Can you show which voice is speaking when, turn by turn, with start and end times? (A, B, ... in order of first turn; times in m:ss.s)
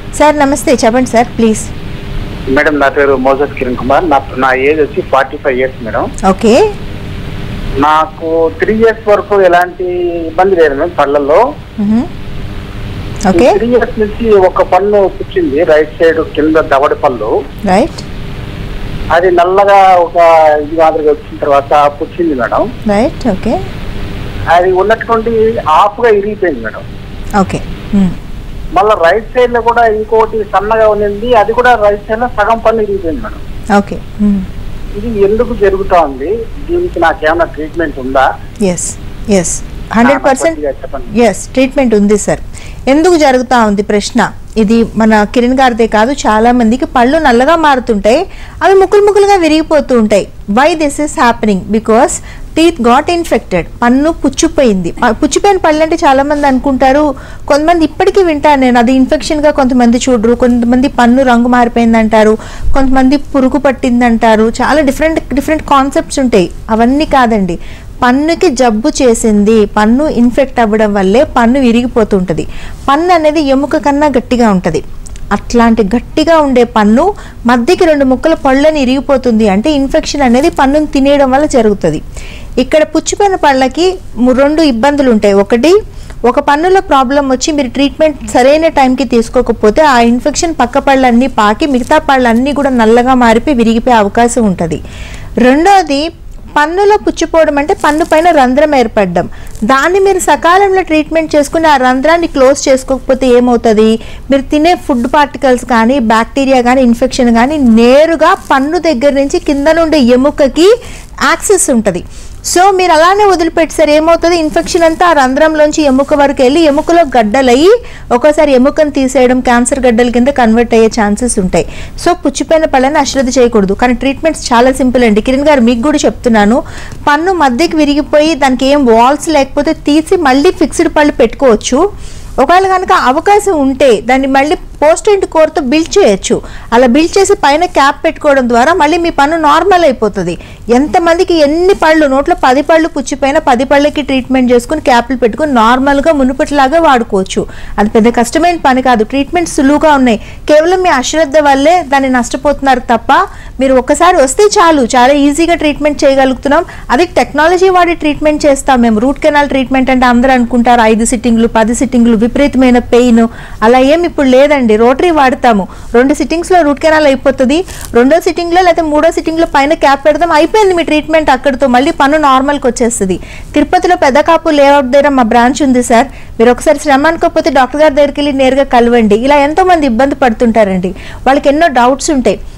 0:00.2-0:01.7 A
0:02.5-0:06.1 B
0:06.3-0:06.6 A
0:07.8-0:11.4 B
0:11.8-0:12.1 A
0:13.3-0:13.6 A
0:13.3-0:17.3 B
0:17.7-0:18.0 A
0:19.2-0:22.7 B
0:22.9-0:23.6 A
0:24.5-0:26.8 B
0:27.4-0:28.2 A
0:28.8-0:33.4 B
0:33.8-0:34.5 A
0:35.0-0:38.3 B
0:38.7-0:40.6 A
0:40.0-0:41.1 B
0:41.2-1:14.8 A
1:15.4-1:22.0 A
1:22.6-1:25.7 A
1:26.3-1:34.8 A
1:35.5-1:36.0 A
1:36.6-1:50.7 A
1:51.3-2:11.8 A
2:12.4-3:02.4 A